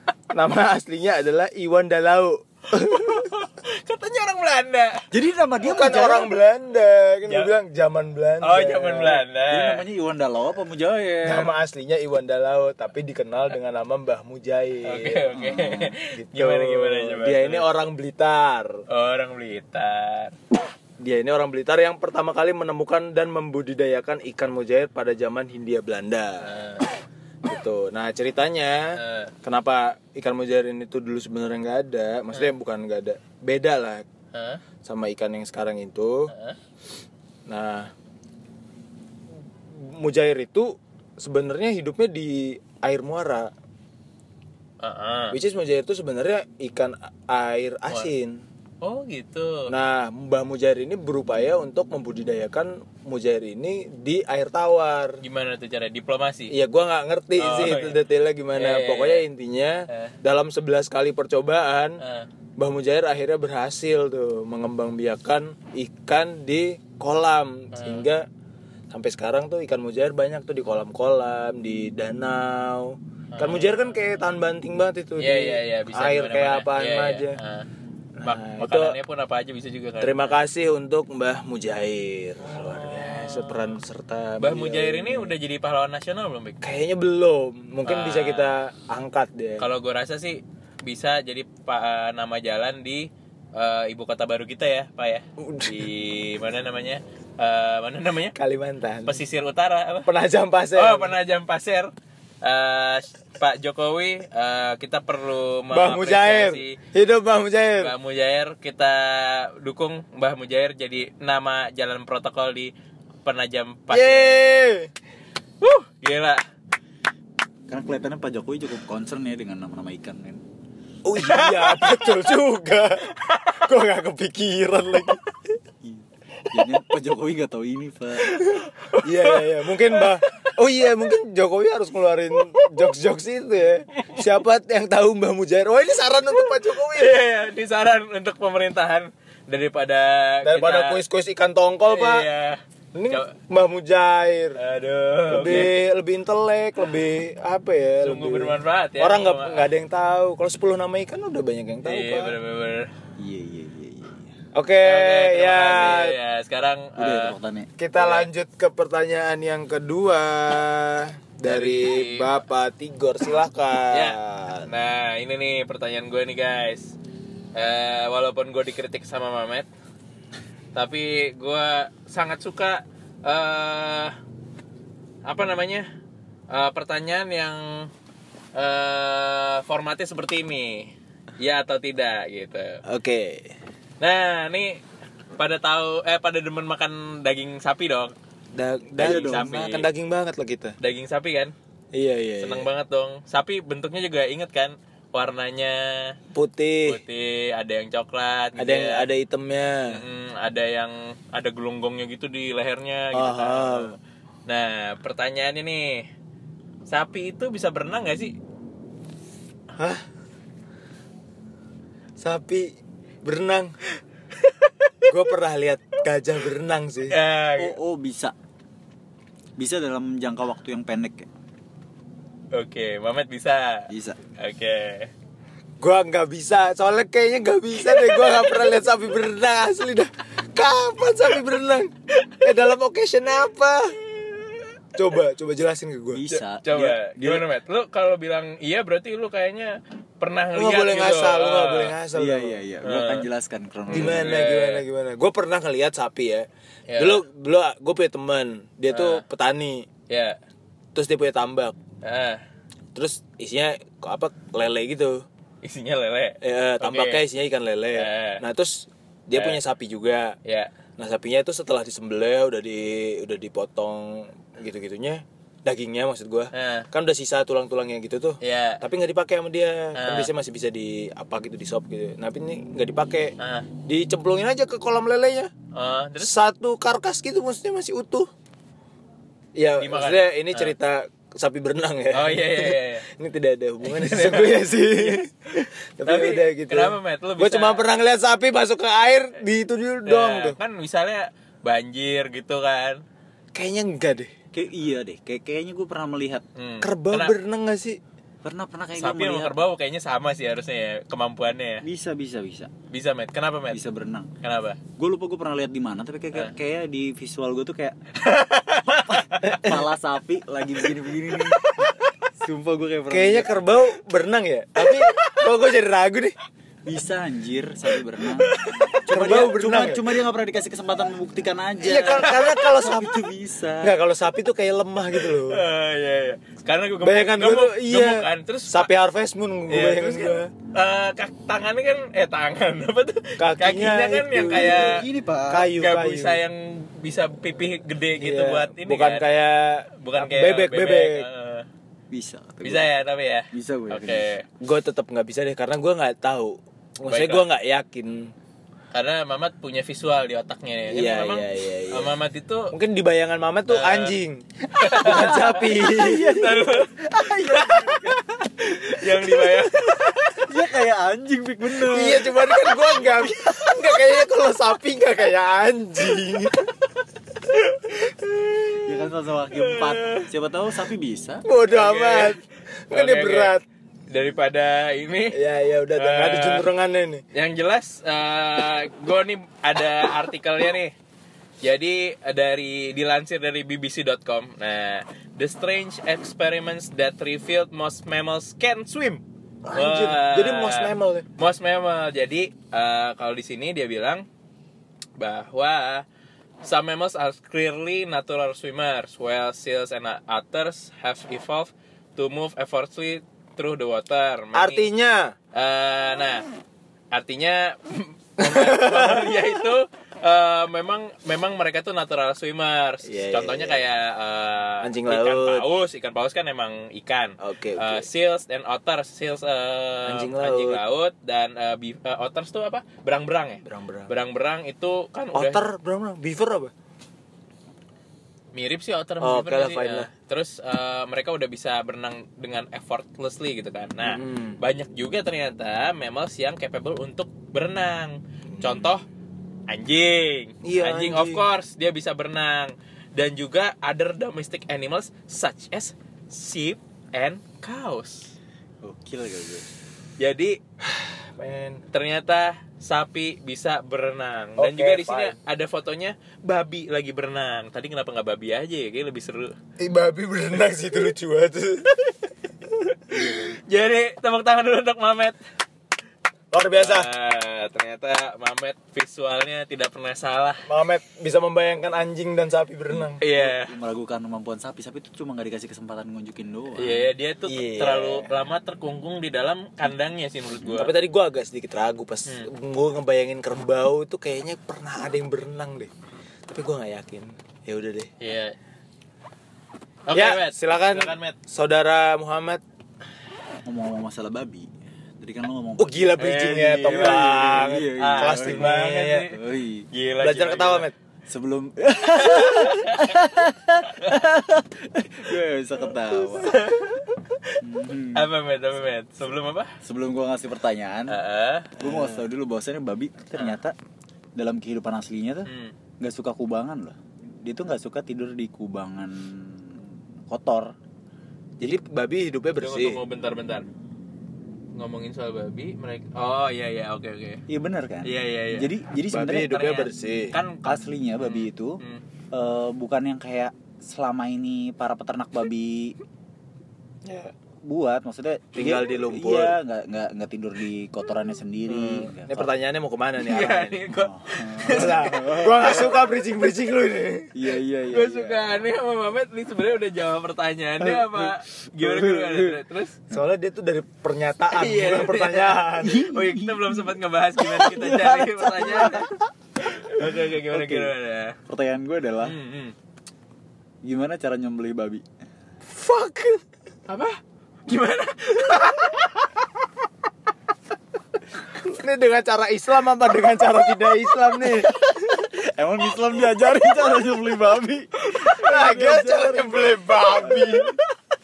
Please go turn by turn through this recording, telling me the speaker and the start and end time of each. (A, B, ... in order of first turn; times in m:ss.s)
0:00.3-0:03.3 A
0:02.8-0:05.1 B
0:05.1-0:06.4 C
0:05.6-0:09.2 A
0:08.4-0:09.8 B
0:09.5-0:11.5 C
0:11.2-0:18.8 A
0:14.8-0:17.7 B
0:15.3-0:15.9 C
0:18.9-0:20.4 B
0:21.0-0:26.5 A
0:26.4-0:26.9 B
0:27.4-0:34.1 A
0:29.0-0:29.3 B
0:34.3-0:34.6 B
0:34.8-0:36.3 A
0:36.3-0:36.6 B
0:37.5-0:37.9 A
0:39.7-0:43.5 A
0:44.8-0:45.4 B
0:45.3-0:48.4 A
0:48.8-0:49.7 B
0:49.7-0:55.2 A
0:55.2-0:56.5 B
0:56.5-1:02.0 A
0:57.4-0:58.0 B
0:58.5-0:59.2 B
0:59.9-1:00.2 B
1:02.0-1:02.3 B
1:02.6-1:08.3 A
1:07.7-1:08.0 B
1:08.9-1:17.4 A
1:13.3-1:13.9 B
1:15.2-1:17.7 B
1:18.2-1:19.0 A
1:18.2-1:20.4 B
1:20.0-1:25.3 A
1:22.4-1:23.8 B
1:24.4-1:26.6 B
1:26.6-1:29.7 A
1:27.8-1:28.5 B
1:29.6-1:38.4 B
1:35.4-1:35.8 A
1:38.4-1:39.2 A
1:39.1-1:40.1 B
1:40.1-1:41.2 A
1:40.8-1:46.8 B
1:45.7-1:47.9 A
1:47.8-1:52.7 B
1:53.2-1:54.5 B
1:53.9-1:54.9 A
1:55.6-1:56.4 B
1:57.7-2:00.4 C
2:01.0-2:05.2 A
2:01.2-2:02.3 B
2:03.1-2:03.7 B
2:05.8-2:08.4 C
2:08.4-2:17.2 A
2:08.8-2:10.5 B
2:16.8-2:21.0 B
2:20.4-2:22.3 A
2:21.9-2:23.3 B
2:22.9-2:24.6 A
2:24.6-2:25.7 B
2:25.3-2:32.4 A
2:28.0-2:29.7 B
2:31.8-2:32.9 B
2:33.2-2:34.3 C
2:34.5-2:36.2 A
2:34.8-2:37.4 B
2:37.0-2:37.7 C
2:37.8-2:44.7 A
2:38.0-2:38.3 B
2:41.5-2:42.4 B
2:43.9-2:46.9 B
2:47.6-2:49.7 B
2:50.7-2:54.2 B
2:55.2-2:55.9 B
2:56.5-2:57.9 B
2:58.6-3:02.8 B
3:02.8-3:03.5 A
3:04.0-3:04.8 B
3:05.4-3:08.1 B
3:08.5-3:10.8 A
3:09.0-3:09.6 C
3:09.0-3:09.9 B
3:10.8-3:11.5 B
3:11.9-3:12.7 A
3:12.4-3:16.2 B
3:16.3-3:17.0 A
3:16.9-3:19.1 B
3:18.6-3:20.0 A
3:19.9-3:26.1 B
3:23.1-3:24.0 A
3:26.9-3:28.4 B
3:29.8-3:30.0 A
3:32.2-3:33.9 A
3:35.0-3:37.2 A
3:37.1-3:37.8 B
3:37.6-3:38.4 C
3:39.6-3:41.3 C
3:42.5-3:45.1 B
3:43.9-3:44.2 C
3:45.8-3:54.0 A
3:55.0-3:56.3 A
3:56.1-3:57.5 C
3:56.6-4:01.9 B
4:00.6-4:02.6 A
4:02.1-4:04.4 C
4:02.8-4:03.3 B
4:03.9-4:04.8 B
4:03.9-4:09.9 A
4:06.9-4:07.2 B
4:08.9-4:09.2 B
4:10.1-4:10.4 B
4:11.0-4:11.8 A
4:12.0-4:12.4 B
4:13.0-4:15.2 A
4:15.6-4:17.2 B
4:16.4-4:20.4 A
4:17.9-4:18.4 B
4:20.4-4:20.7 B
4:21.0-4:35.5 A
4:26.5-4:26.9 B
4:28.4-4:28.8 B
4:30.0-4:30.3 B
4:33.4-4:33.7 B
4:35.7-4:36.3 B
4:36.2-4:38.3 A
4:39.6-4:50.6 A
4:39.8-4:40.7 B
4:42.1-4:43.1 B
4:43.8-4:45.2 B
4:46.1-4:47.8 B
4:50.1-4:53.0 B
4:53.5-4:54.3 A
4:54.5-4:56.4 C
4:56.6-4:57.4 B
4:56.8-4:58.0 A
4:58.4-4:59.6 C
4:59.0-5:01.8 B
5:01.8-5:02.7 C
5:02.9-5:03.8 B
5:03.7-5:04.3 C
5:04.4-5:04.8 B
5:05.0-5:08.0 C
5:08.2-5:09.4 B
5:09.1-5:13.6 C
5:09.4-5:09.8 A
5:13.1-5:16.4 A
5:16.9-5:24.0 C
5:18.4-5:19.0 B
5:19.1-5:20.1 A
5:21.8-5:23.2 A
5:22.2-5:22.5 B
5:23.8-5:25.6 A
5:25.2-5:28.9 B
5:27.0-5:30.5 A
5:29.7-5:35.1 B
5:33.4-5:36.4 A
5:34.4-5:35.7 C
5:35.7-5:39.3 B
5:38.2-5:41.3 A
5:40.0-5:41.7 B
5:42.1-5:42.9 C
5:42.6-5:44.5 B
5:43.5-5:44.3 C
5:44.6-5:48.3 A
5:47.1-5:47.4 B
5:48.9-5:52.7 B
5:50.9-5:52.1 A
5:52.7-5:56.5 A
5:53.7-5:54.2 B
5:54.8-6:00.5 B
5:55.1-5:59.2 C
6:00.4-6:03.8 C
6:01.8-6:06.7 A
6:08.9-6:11.4 C
6:09.5-6:10.3 B
6:11.4-6:13.6 A
6:11.7-6:13.5 B
6:14.1-6:15.4 B
6:15.3-6:17.2 A
6:16.0-6:16.7 B
6:17.3-6:20.9 B
6:21.6-6:34.2 B
6:29.6-6:31.2 A
6:35.2-6:36.0 B
6:36.6-6:44.9 B
6:44.5-6:45.4 A
6:45.5-6:46.5 B
6:47.1-7:05.6 B
6:48.4-6:49.3 A
6:53.0-6:53.8 A
6:54.8-6:55.6 A
6:57.4-6:58.1 A
7:00.1-7:00.8 A
7:03.6-7:04.1 A
7:05.3-7:06.7 A
7:08.5-7:19.0 B
7:09.2-7:10.1 A
7:14.0-7:14.6 A
7:18.6-7:18.9 A
7:19.7-7:28.3 B
7:20.6-7:21.4 A
7:28.8-7:29.7 C
7:30.2-7:30.6 B
7:30.9-7:31.8 A
7:31.9-7:39.6 B
7:34.6-7:35.4 A
7:39.8-7:42.2 A
7:43.1-7:45.4 B
7:43.1-7:43.5 A
7:46.5-7:47.1 A
7:46.8-7:50.6 B
7:50.7-7:53.2 A
7:53.2-7:53.7 B
7:53.3-7:57.1 C
7:56.8-8:00.9 B
7:57.5-7:58.3 A
8:00.7-8:05.9 A
8:06.5-8:08.1 A
8:08.2-8:08.6 B
8:10.1-8:11.4 B
8:10.1-8:12.6 A
8:13.6-8:16.2 C
8:15.8-8:19.3 A
8:16.2-8:19.4 B
8:16.8-8:19.9 C
8:19.9-8:20.9 B
8:20.2-8:21.0 A
8:21.3-8:26.6 C
8:22.2-8:23.2 B
8:26.3-8:27.6 B
8:27.6-8:28.3 C
8:28.1-8:29.7 B
8:29.8-8:31.2 C
8:31.1-8:32.2 B
8:31.8-8:33.8 C
8:34.4-8:35.5 C
8:35.5-8:35.7 B
8:36.0-8:40.8 C
8:41.6-8:43.0 A
8:42.6-8:43.7 B
8:44.8-8:47.4 B
8:47.5-8:49.7 C
8:48.0-8:48.7 B
8:49.1-8:50.4 A
8:49.5-8:52.0 B
8:50.6-8:51.8 C
8:52.3-8:56.0 C
8:57.0-8:57.3 A
8:57.6-9:02.5 C
8:58.6-8:59.6 A
9:01.7-9:03.8 A
9:03.2-9:05.8 B
9:03.9-9:05.9 C
9:04.6-9:07.3 A
9:07.3-9:08.4 C
9:07.9-9:13.0 B
9:10.8-9:12.6 C
9:13.1-9:16.1 A
9:14.5-9:21.4 B
9:15.8-9:19.2 C
9:20.0-9:20.9 C
9:21.5-9:22.4 C
9:22.2-9:22.8 B
9:23.8-9:25.1 C
9:25.8-9:26.4 A
9:26.9-9:29.1 B
9:31.6-9:34.8 A
9:34.6-9:40.7 C
9:38.2-9:40.8 A